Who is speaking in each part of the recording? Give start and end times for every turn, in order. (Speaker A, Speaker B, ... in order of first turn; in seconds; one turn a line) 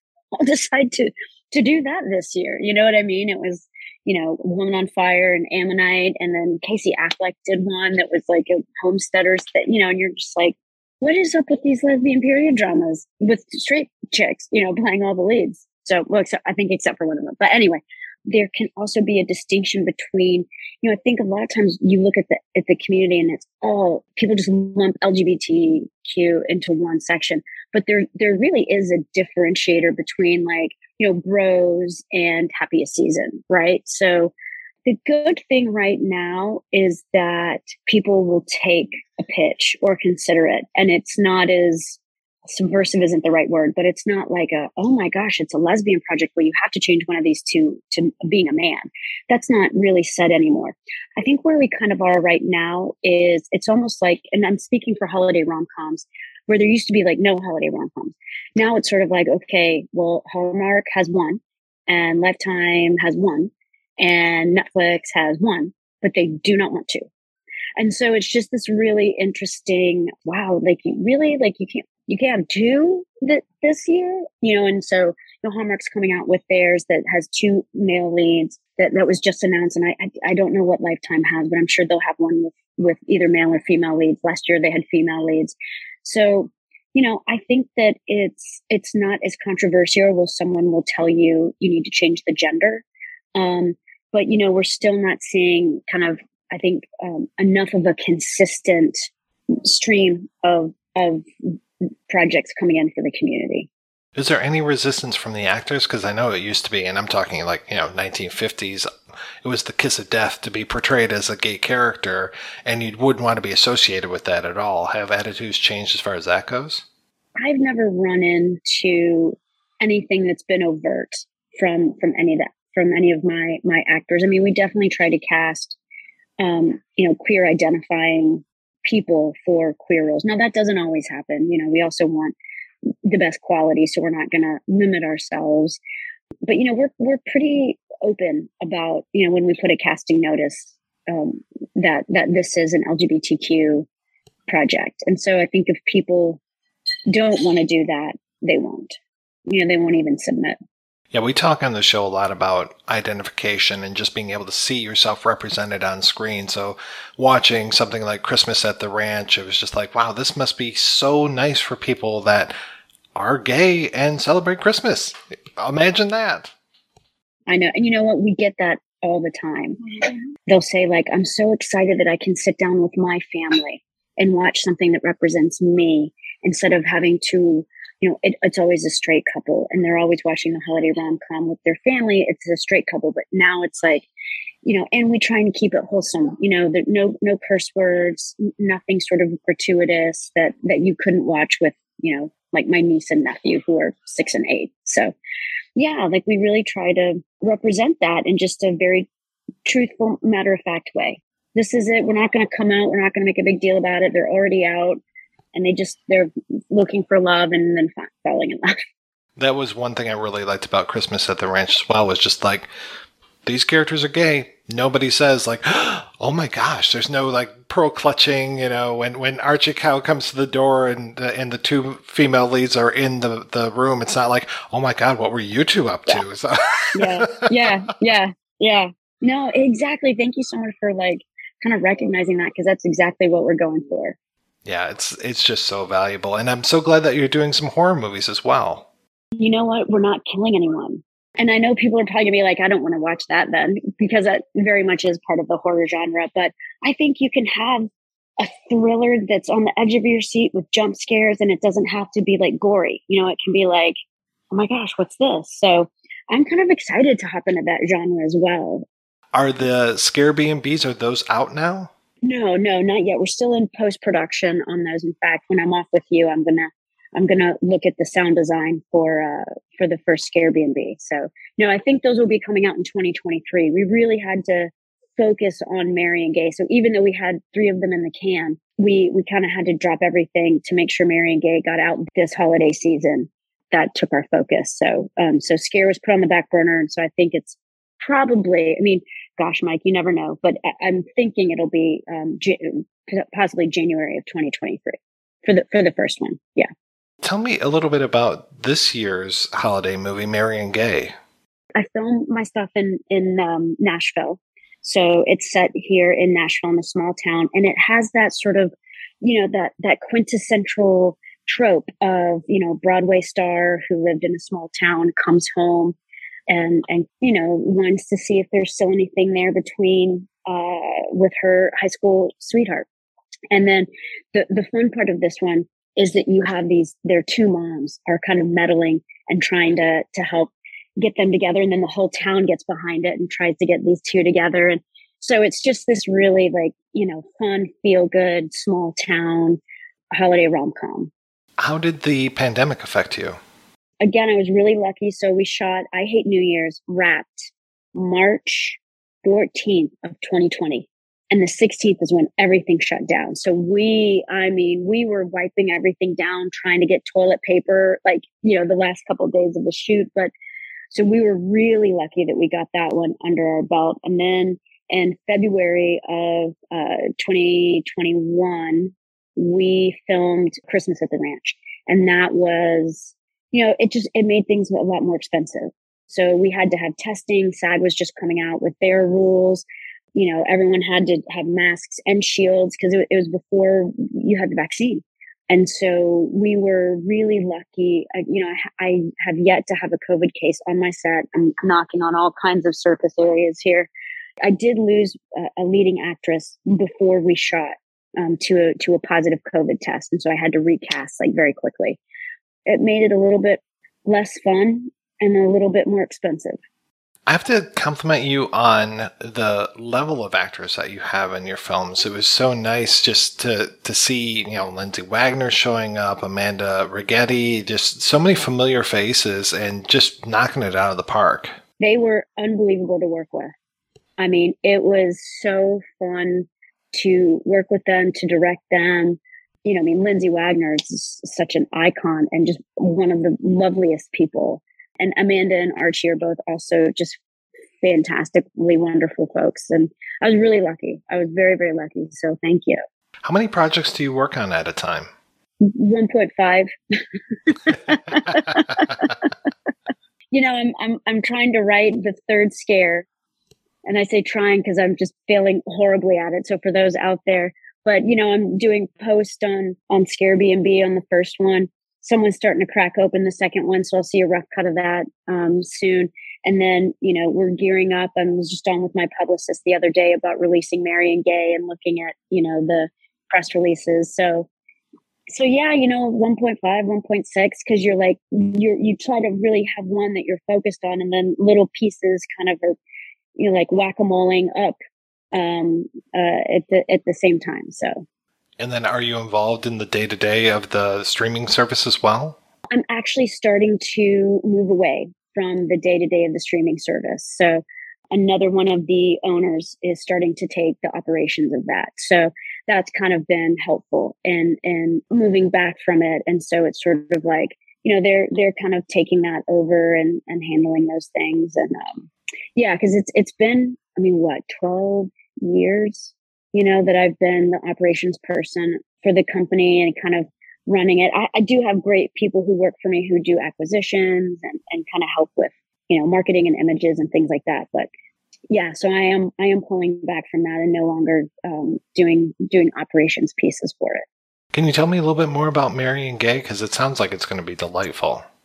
Speaker A: 0.3-34.3
Speaker A: 34.8-42.0
Speaker A: 42.5-67.0
Speaker A: 67.8-92.8
Speaker A: 93.3-99.0
Speaker A: 99.6-101.2
Speaker A: 102.1-103.7
Speaker B: 104.1-108.9
Speaker B: 109.4-116.8
Speaker A: 117.4-125.8
Speaker A: 126.4-132.3
Speaker A: 133.0-135.8
Speaker A: 136.4-143.9
Speaker A: 144.5-146.4
Speaker A: 147.1-148.9
Speaker A: 149.5-150.6
Speaker B: 151.1-162.5
Speaker B: 163.1-166.5
Speaker A: 167.5-169.8
Speaker A: 170.5-184.1
Speaker A: 184.6-195.1
Speaker A: 195.8-199.1
Speaker A: 199.7-205.0
Speaker A: 205.5-208.8
Speaker B: 209.4-212.7
Speaker B: 213.4-227.7
Speaker A: 226.9-234.2
Speaker B: 234.6-238.8
Speaker A: 239.4-254.0
Speaker A: 254.5-258.9
Speaker B: 259.3-261.9
Speaker A: 262.2-296.7
Speaker B: 297.2-301.1
Speaker A: 301.7-315.9
Speaker A: 316.5-322.9
Speaker A: 323.5-339.6
Speaker A: 340.1-341.1
Speaker B: 341.6-343.4
Speaker A: 344.0-360.3
Speaker A: 360.9-393.9
Speaker A: 394.4-402.0
Speaker A: 402.6-406.6
Speaker B: 407.2-421.6
Speaker A: 421.8-423.5
Speaker A: 424.2-437.2
Speaker A: 437.8-442.8
Speaker B: 443.2-445.1
Speaker A: 445.6-446.7
Speaker A: 447.5-449.1
Speaker A: 450.3-453.1
Speaker A: 453.9-474.5
Speaker A: 475.3-482.8
Speaker A: 483.4-484.8
Speaker A: 485.3-488.0
Speaker B: 488.6-492.4
Speaker A: 492.7-527.9
Speaker A: 528.5-534.0
Speaker B: 534.5-538.2